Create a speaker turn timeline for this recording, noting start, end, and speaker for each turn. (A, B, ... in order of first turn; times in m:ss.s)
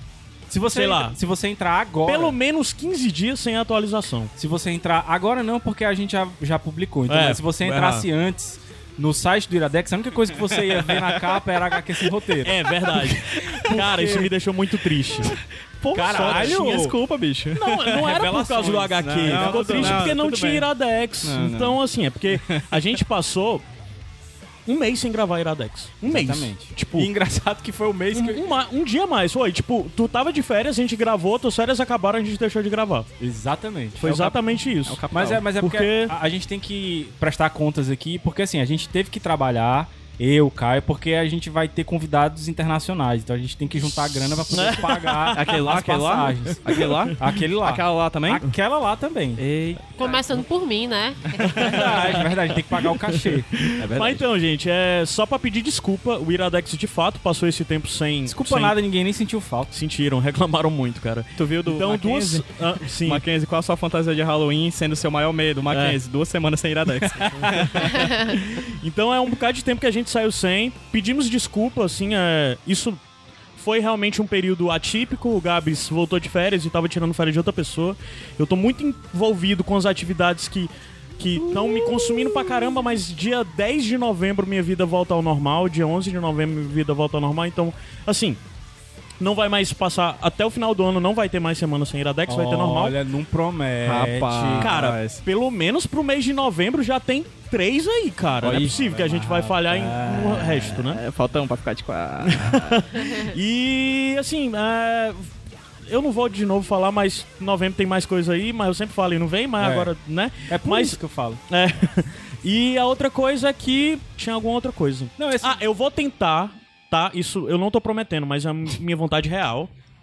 0:00.5-0:02.4 A
0:00.7-0:01.2 B
0:02.1-0:04.3 B
0:04.4-0:14.3 A
0:07.1-0:08.0 B
0:10.6-0:11.4 C
0:12.4-0:16.9 B
0:15.9-0:17.0 A
0:15.9-0:18.2 C
0:17.5-0:23.6 B
0:18.0-0:20.1 A
0:18.9-0:20.7 C
0:21.2-0:21.8 C
0:22.3-0:22.8 C
0:24.6-0:27.1 B
0:26.0-0:28.4 A
0:28.1-0:33.1 B
0:33.2-0:34.4 A
0:34.0-0:36.1 B
0:34.8-0:35.4 C
0:35.1-0:49.4 A
0:44.5-0:45.7 B
0:45.3-0:48.4 C
0:46.4-0:47.1 B
0:49.4-0:50.2 C
0:50.0-0:51.5 D
0:51.4-0:58.8 B
0:51.6-0:53.5 A
0:53.8-0:54.2 C
0:58.2-0:59.7 A
0:59.7-1:03.2 B
1:01.4-1:02.5 C
1:03.0-1:08.1 C
1:05.7-1:06.0 B
1:07.3-1:13.0 B
1:13.6-1:28.4 B
1:21.7-1:22.5 D
1:29.2-1:33.0 B
1:32.3-1:34.7 A
1:33.8-1:35.2 C
1:34.6-1:41.0 B
1:38.4-1:39.0 C
1:38.6-1:40.8 A
1:40.8-1:43.0 C
1:42.2-1:45.3 B
1:45.8-1:59.7 B
1:49.6-1:49.9 A
1:50.5-1:51.4 A
1:55.2-1:55.6 A